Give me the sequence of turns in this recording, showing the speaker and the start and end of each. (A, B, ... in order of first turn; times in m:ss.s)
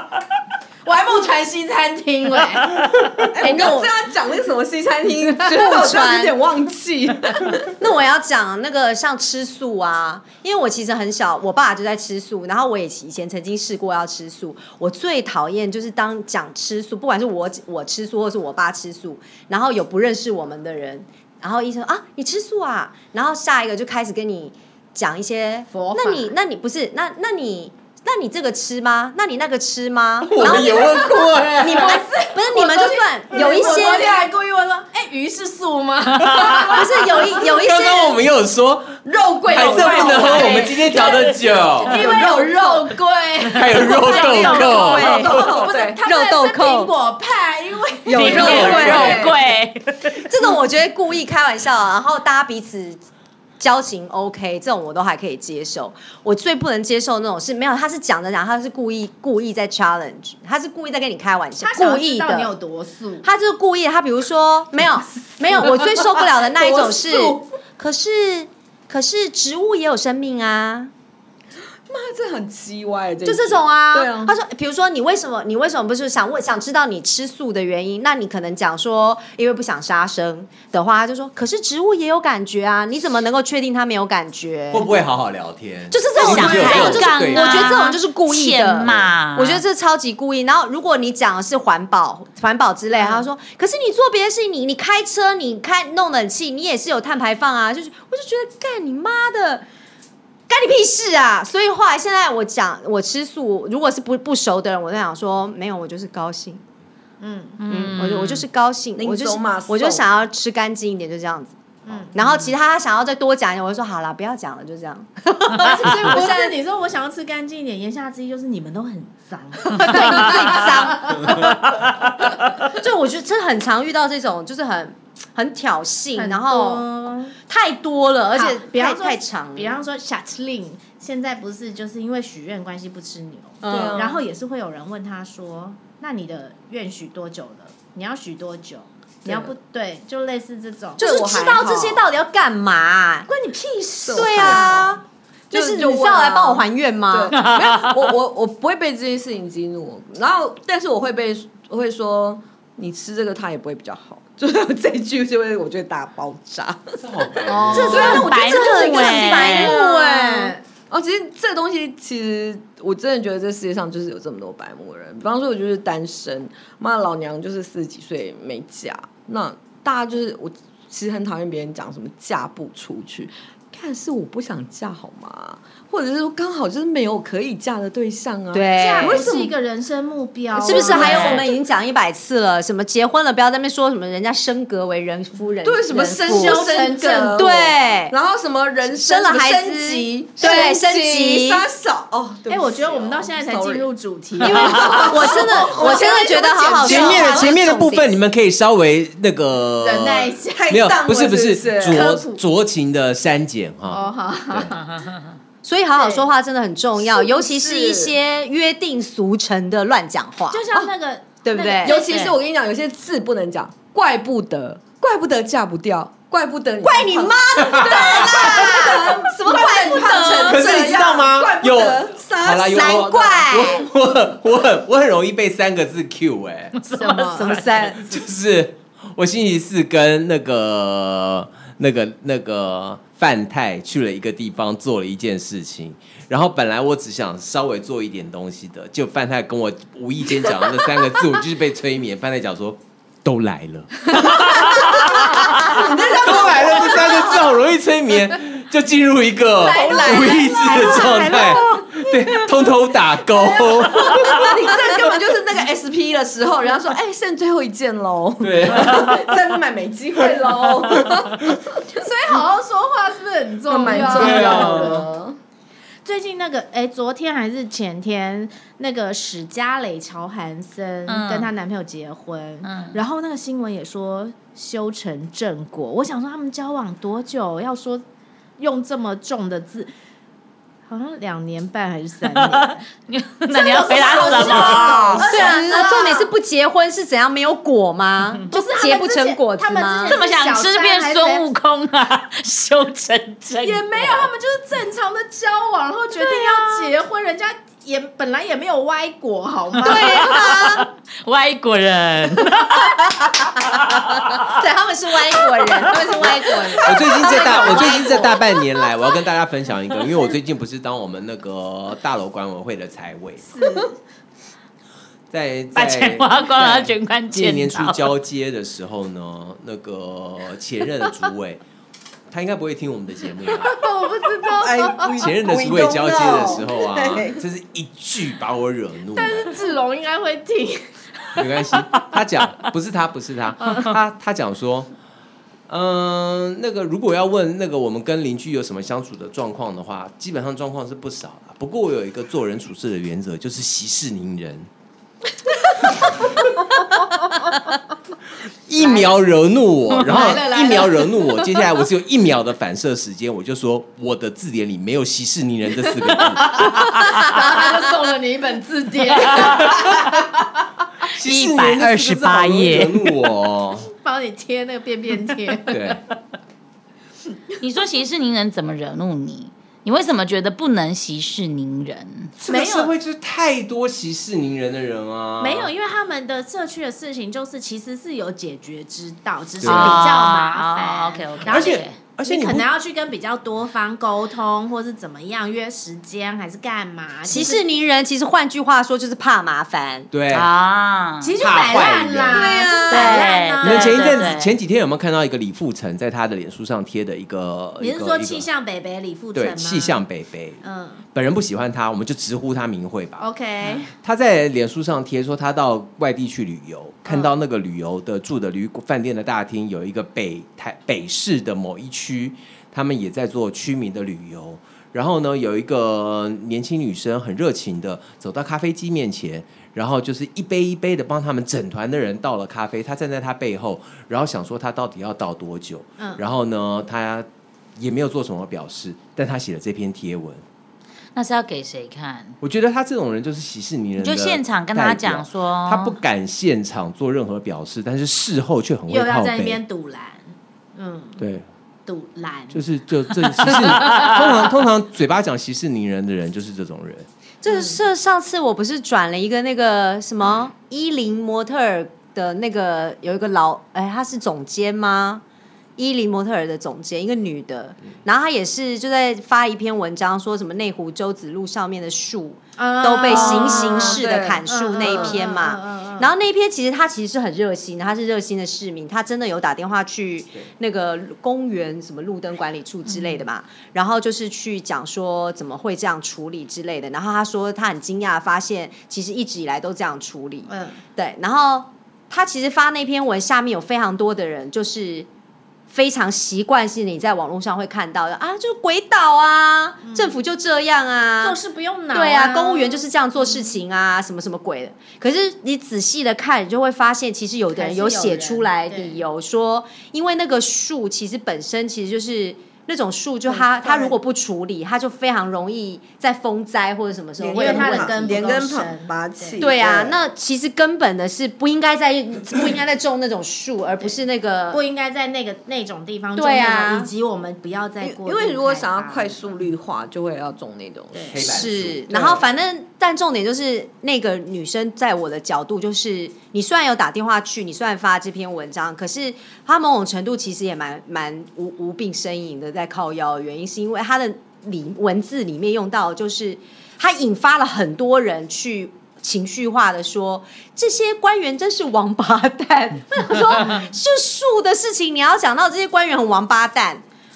0:00.8-0:03.9 A
0:03.3-0:07.8 B
0:03.4-0:03.8 C
0:05.5-0:06.4 C
0:07.8-0:34.3 C
0:25.7-0:26.3 A
0:30.3-0:31.9 D
0:30.4-0:31.9 B
0:31.7-0:37.2 A
0:36.3-0:42.0 D
0:36.6-0:38.2 C
0:39.0-0:41.3 B
0:39.5-0:49.1 A
0:41.8-0:42.9 B
0:43.5-0:45.4 D
0:44.2-0:46.0 B
0:44.6-0:45.4 C
0:46.0-0:46.9 C
0:48.1-0:49.4 B
0:48.1-0:50.3 E
0:48.2-0:49.3 D
0:48.3-0:49.1 C
0:50.2-0:53.0 C
0:53.6-1:02.5 C
1:01.6-1:03.3 A
1:03.2-1:10.9 C
1:05.6-1:07.5 B
1:11.9-1:14.4 B
1:13.2-1:25.0 C
1:24.7-1:27.8 D
1:25.9-1:39.6 C
1:26.1-1:29.6 E
1:32.9-1:33.3 A
1:40.5-1:46.6 C
1:47.2-1:47.6 A
1:47.6-1:48.4 E
1:47.7-1:51.6 C
1:49.0-1:50.1 B
1:51.8-1:52.2 A
1:52.1-1:56.6 C
1:55.6-2:01.5 A
1:59.7-2:01.7 C
2:02.6-2:06.9 C
2:06.1-2:07.4 A
2:07.4-2:09.8 C
2:08.3-2:21.0 A
2:13.6-2:14.0 C
2:13.6-2:14.2 B
2:19.2-2:19.5 B
2:21.0-2:22.1 B
2:21.0-2:23.3 C
2:23.3-2:24.9 A
2:24.0-2:25.0 B
2:24.1-2:27.4 C
2:25.5-2:59.5 B
2:27.3-2:28.0 E
2:37.0-2:38.2 D
2:37.5-2:40.5 A
2:37.6-2:40.6 C
2:37.8-2:39.8 E
2:58.5-2:59.2 C
2:58.8-3:01.5 A
3:00.6-3:06.8 C
3:00.6-3:01.5 B
3:00.9-3:01.4 E
3:05.6-3:13.9 B
3:06.3-3:07.6 A
3:07.3-3:08.2 C
3:08.9-3:11.6 C
3:12.5-3:16.2 A
3:14.4-3:17.5 B
3:14.4-3:18.1 C
3:16.8-3:24.7 D
3:19.8-3:20.8 A
3:20.6-3:22.2 B
3:21.8-3:22.4 A
3:23.9-3:25.0 A
3:25.6-3:30.6 C
3:25.9-3:26.3 A
3:27.0-3:28.2 B
3:30.5-3:32.2 A
3:31.4-3:32.0 C
3:31.8-3:43.8 B
3:32.0-3:32.3 E
3:36.8-3:40.6 C
3:37.7-3:38.6 D
3:40.3-3:46.8 D
3:42.7-3:43.9 C
3:46.8-3:47.8 E
3:46.9-3:47.6 A
3:47.3-3:48.1 C
3:48.0-4:14.6 D
4:04.2-4:07.6 B
4:09.7-4:11.2 A
4:09.7-4:12.1 B
4:09.7-4:11.8 C
4:13.4-4:21.9 B
4:18.4-4:19.4 D
4:21.9-4:25.1 A
4:23.7-4:25.4 B
4:24.0-4:25.1 D
4:26.0-4:38.0 A
4:31.1-4:31.5 E
4:32.6-4:33.0 E
4:38.6-4:39.9 A
4:40.9-4:42.9 A
4:42.3-4:45.2 E
4:43.5-4:46.3 A
4:43.9-4:46.1 B
4:45.2-4:50.2 C
4:48.5-4:51.5 A
4:50.1-4:54.3 E
4:53.6-5:00.4 A
4:56.4-4:56.7 E
4:59.8-5:00.9 C
4:59.9-5:04.6 E
5:04.5-5:08.3 C
5:05.6-5:05.9 E
5:06.8-5:13.5 D
5:07.4-5:08.3 A
5:13.5-5:14.0 A
5:15.3-5:21.6 D
5:15.7-5:18.1 E
5:22.3-5:23.8 D
5:23.7-5:25.2 A
5:24.5-5:27.4 B
5:25.2-5:29.6 D
5:29.1-5:31.4 A
5:31.4-5:34.9 D
5:35.7-5:44.7 D
5:45.8-5:46.3 D
5:47.2-5:47.5 A
5:48.7-5:56.8 D
5:48.8-5:49.1 A
5:50.0-5:51.4 A
5:56.2-6:00.2 A
5:56.8-5:57.2 E
5:59.4-6:00.0 D
6:01.1-6:03.9 D
6:01.2-6:03.2 E
6:03.9-6:06.0 A
6:05.7-6:06.0 D
6:07.6-6:12.3 E
6:12.4-6:15.7 D
6:12.5-6:12.9 A
6:15.4-6:27.6 A
6:19.6-6:20.1 D
6:19.6-6:22.0 E
6:21.5-6:22.7 D
6:27.3-6:30.1 C
6:30.1-6:30.5 D
6:30.3-6:31.4 E
6:31.2-6:34.3 A
6:31.4-6:32.6 D
6:32.3-6:33.2 B
6:32.4-6:33.2 C
6:32.9-6:34.6 E
6:33.6-6:38.5 D
6:37.8-6:40.0 A
6:39.3-6:43.3 D
6:40.6-6:41.0 A
6:43.2-6:43.9 A
6:43.9-7:10.4 D
6:47.1-6:47.3 A
7:11.2-7:12.4 E
7:12.4-7:19.6 D
7:14.0-7:16.0 E
7:18.9-7:21.2 A
7:21.2-7:21.5 D
7:21.9-7:22.6 A
7:22.5-7:27.1 D
7:23.5-7:24.2 A
7:23.8-7:24.2 E
7:27.4-7:35.2 C
7:27.5-7:27.8 A
7:35.8-8:05.1 C
7:42.6-7:46.1 A
7:43.5-7:45.2 B
8:00.5-8:00.8 A
8:05.7-8:11.4 C
8:09.8-8:10.2 A
8:11.2-8:13.6 A
8:11.9-8:28.2 C
8:17.5-8:19.0 A
8:23.3-8:24.0 B
8:27.2-8:30.0 B
8:27.3-8:29.4 A
8:29.4-8:34.6 C
8:34.5-8:39.4 A
8:36.2-8:36.9 C
8:37.8-8:41.3 B
8:40.9-8:41.2 A
8:41.1-8:42.1 D
8:41.2-9:06.8 C
8:41.9-8:42.2 B